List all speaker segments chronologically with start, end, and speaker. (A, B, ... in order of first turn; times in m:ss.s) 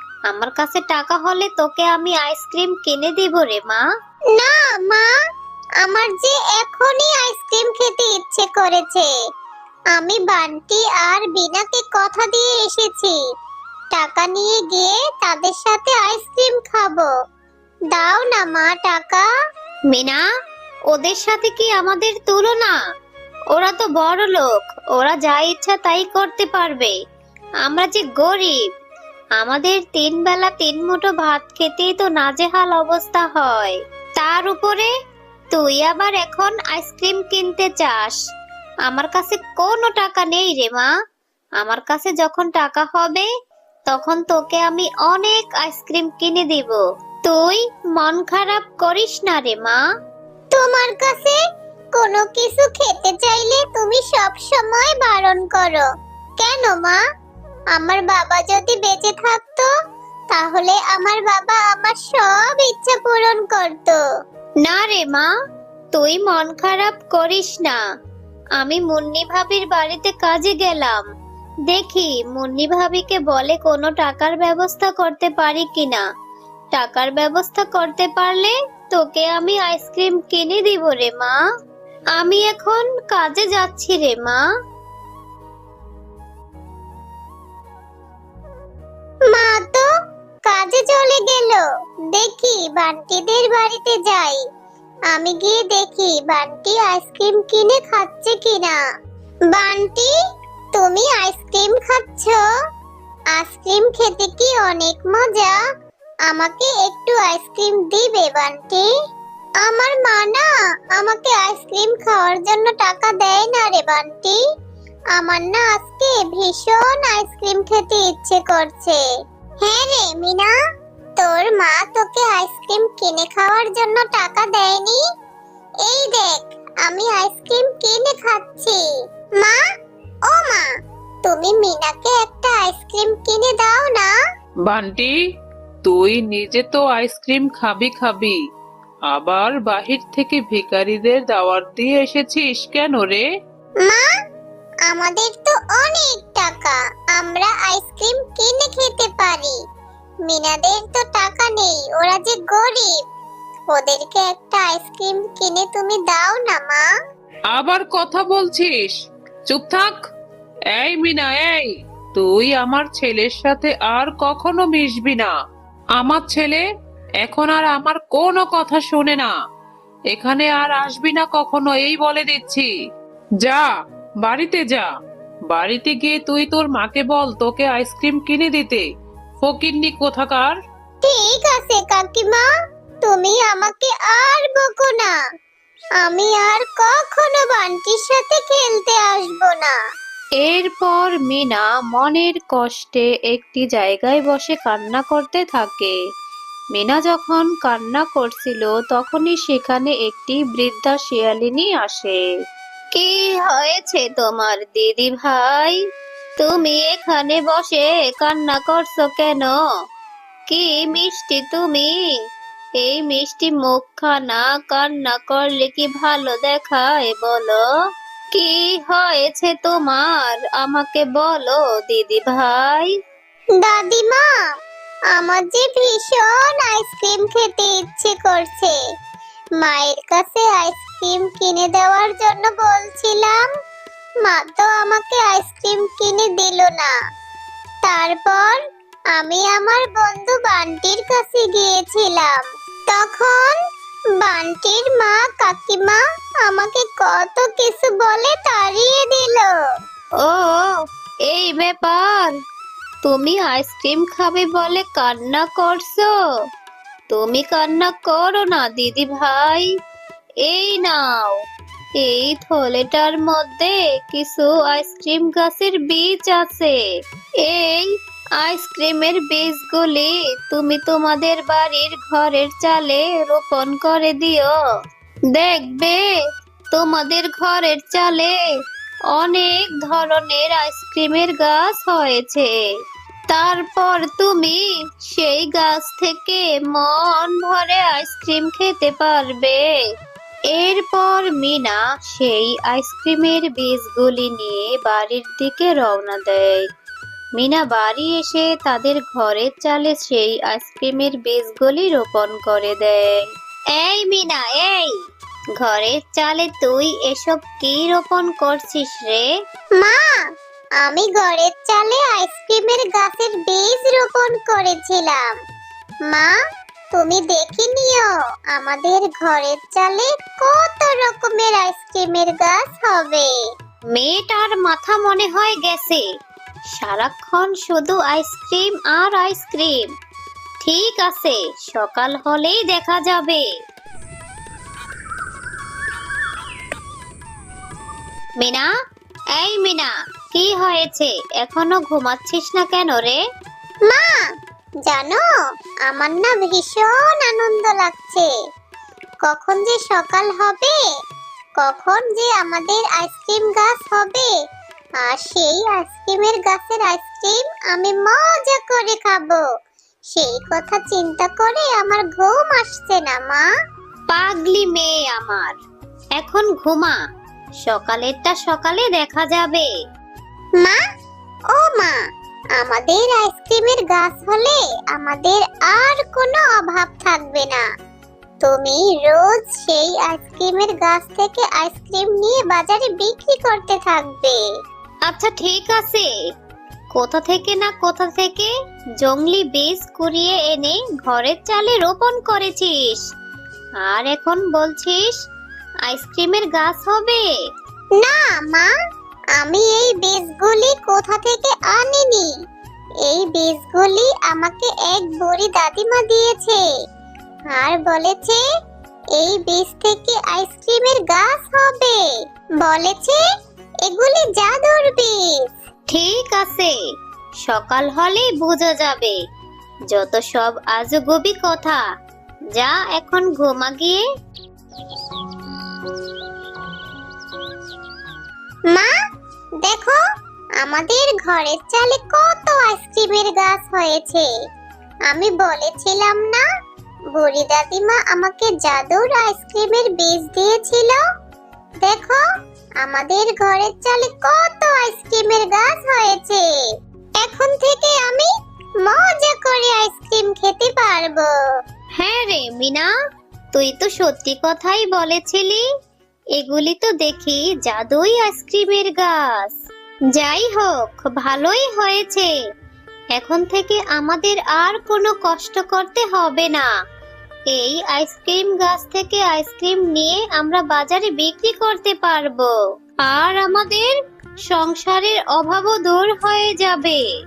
0:00.3-0:03.9 A
0:04.4-0:05.1 B
0:05.8-0:09.1 B
0:09.9-0:13.2 B
0:13.9-0:17.1 B
0:17.9-0:19.3 B
0:19.9-0:20.2 A
0:20.9-0:22.8 A
0:23.5-0:27.0 A
0:27.6-0:28.6 A
0:29.4-0:34.9 A
0:35.5-0:38.2 A
0:38.9-0:40.9 A
0:41.6-0:43.3 A
0:43.9-0:49.8 A
0:50.5-0:51.4 B
0:52.0-0:55.9 B
0:56.4-0:57.0 B
0:57.7-0:59.7 B
1:00.3-1:04.0 B
1:04.6-1:05.3 A
1:05.9-1:07.8 A
1:08.6-1:11.0 A
1:11.7-1:16.0 A
1:16.7-1:21.4 A
1:22.2-1:24.4 A
1:29.3-1:29.9 B
1:30.5-1:34.4 B
1:35.1-1:38.8 B
1:39.5-1:40.1 B
1:40.7-1:42.4 B
1:43.3-1:45.6 B
1:46.3-1:48.9 B
1:49.6-1:54.4 B
1:55.1-1:59.0 B
1:59.6-2:00.5 B
2:01.2-2:05.0 B
2:05.8-2:08.8 B
2:10.3-2:10.7 B
2:11.2-2:14.1 B
2:14.7-2:15.2 C
2:15.8-2:18.4 C
2:19.1-2:23.2 C
2:24.9-2:29.6 B
2:30.3-2:33.0 B
2:33.7-2:36.9 B
2:37.5-2:38.9 C
2:39.5-2:40.0 C
2:40.7-2:45.3 C
2:46.0-2:46.6 C
2:47.2-2:49.3 C
2:50.1-2:52.7 C
2:53.4-2:53.7 C
2:54.2-2:54.9 C
2:55.5-2:58.8 C
2:59.4-3:00.6 C
3:01.0-3:02.5 B
3:03.0-3:05.2 B
3:06.0-3:09.8 B
3:10.4-3:16.0 A
3:16.7-3:22.3 A
3:22.9-3:25.8 A
3:26.4-3:29.5 A
3:30.5-3:32.0 A
3:32.8-3:37.6 A
3:38.3-3:42.9 A
3:43.6-3:44.2 B
3:45.1-3:48.8 B
3:49.6-3:53.4 B
3:54.2-3:56.9 B
3:57.8-3:58.6 B
3:59.1-4:03.6 B
4:04.2-4:09.5 B
4:10.2-4:12.3 A
4:13.0-4:16.1 A
4:17.1-4:19.7 A
4:20.4-4:21.4 A
4:22.0-4:26.8 A
4:27.4-4:34.5 A
4:35.3-4:36.1 A
4:36.7-4:38.4 A
4:39.1-4:42.6 A
4:43.3-4:49.7 A
4:50.5-4:56.6 A
4:57.4-5:03.2 A
5:03.7-5:04.9 A
5:05.6-5:09.3 A
5:09.8-5:10.0 B
5:10.8-5:15.4 B
5:16.1-5:16.3 B
5:16.9-5:23.3 B
5:23.9-5:26.0 A
5:26.7-5:29.9 A
5:30.6-5:33.5 A
5:38.4-5:38.7 A
5:39.4-5:43.2 A
5:43.9-5:44.2 B
5:44.9-5:45.2 B
5:45.9-5:48.3 B
5:49.2-5:50.8 B
5:51.6-5:54.3 B
5:55.0-5:59.4 B
6:00.1-6:03.4 B
6:04.1-6:05.6 A
6:06.2-6:07.0 A
6:07.6-6:09.7 A
6:11.5-6:12.0 B
6:12.6-6:17.6 B
6:18.4-6:24.4 B
6:25.1-6:26.1 A
6:26.9-6:33.0 A
6:33.8-6:35.1 A
6:35.9-6:37.2 A
6:38.0-6:38.7 B
6:39.4-6:42.3 B
6:43.0-6:46.6 B
6:47.5-6:48.4 B
6:49.2-6:52.0 B
6:52.6-6:53.2 B
6:53.8-6:55.5 B
6:55.9-6:56.7 A
6:57.4-6:59.2 A
6:59.9-7:01.8 A
7:02.5-7:04.0 A
7:09.6-7:10.0 B
7:10.6-7:14.3 B
7:15.1-7:16.4 B
7:17.1-7:21.0 B
7:21.8-7:22.2 B
7:22.8-7:26.4 B
7:27.2-7:28.3 B
7:28.8-7:31.3 B
7:32.0-7:32.9 A
7:33.5-7:35.6 A
7:36.4-7:39.6 A
7:40.2-7:42.3 A
7:43.1-7:46.7 A
7:47.5-7:52.5 A
7:53.0-7:53.9 A
7:54.5-7:57.0 A